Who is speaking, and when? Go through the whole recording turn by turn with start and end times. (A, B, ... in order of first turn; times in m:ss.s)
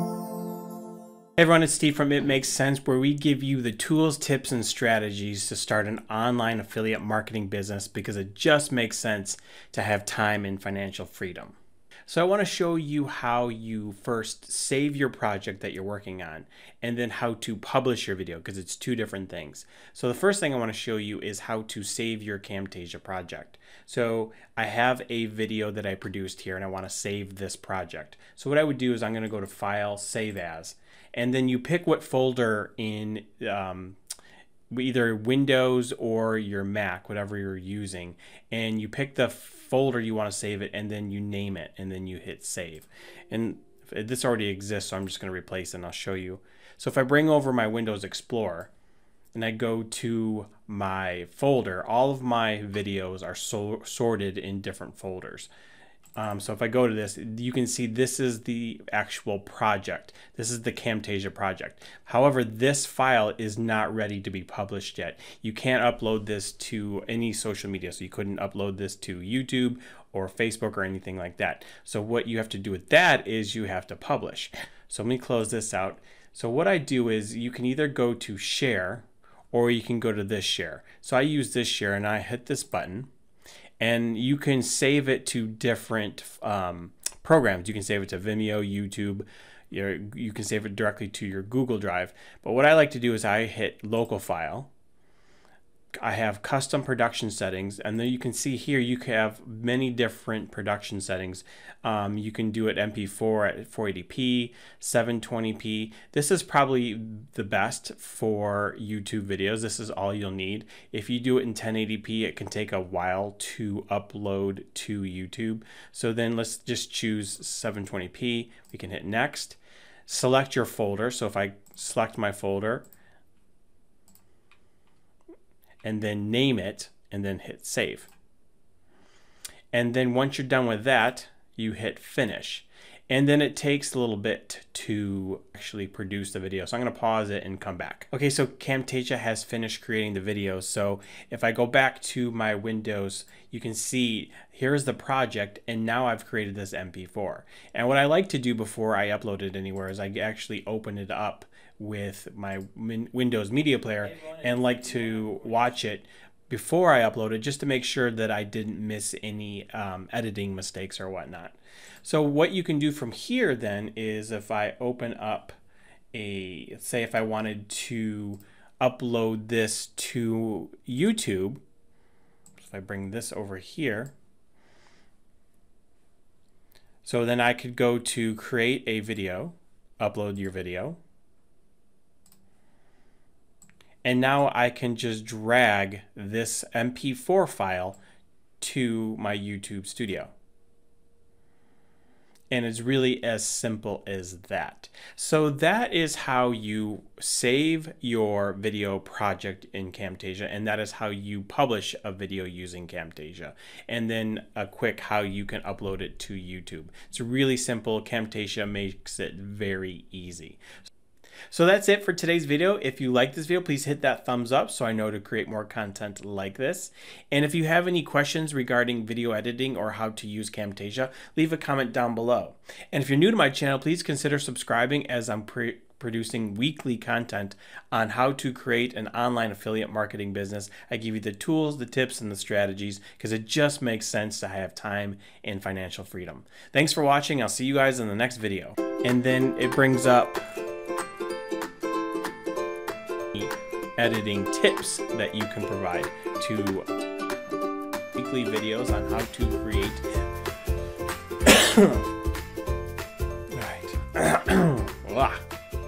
0:01.4-0:34.0 A
0:34.7-0:48.7 A
0:49.3-0:55.5 A
0:56.2-1:23.1 A
1:23.8-1:34.7 A
1:36.0-2:02.9 A
2:05.8-2:08.1 A
2:09.7-2:45.6 A
2:46.1-2:51.6 A
2:52.6-2:54.1 A
2:57.0-3:01.0 A
3:04.0-3:08.0 A
3:08.6-3:10.3 A
3:12.5-3:30.6 A
3:31.5-4:00.4 A
4:03.3-4:06.9 A
4:08.2-4:10.1 A
4:11.5-4:12.0 A
4:13.5-4:15.4 A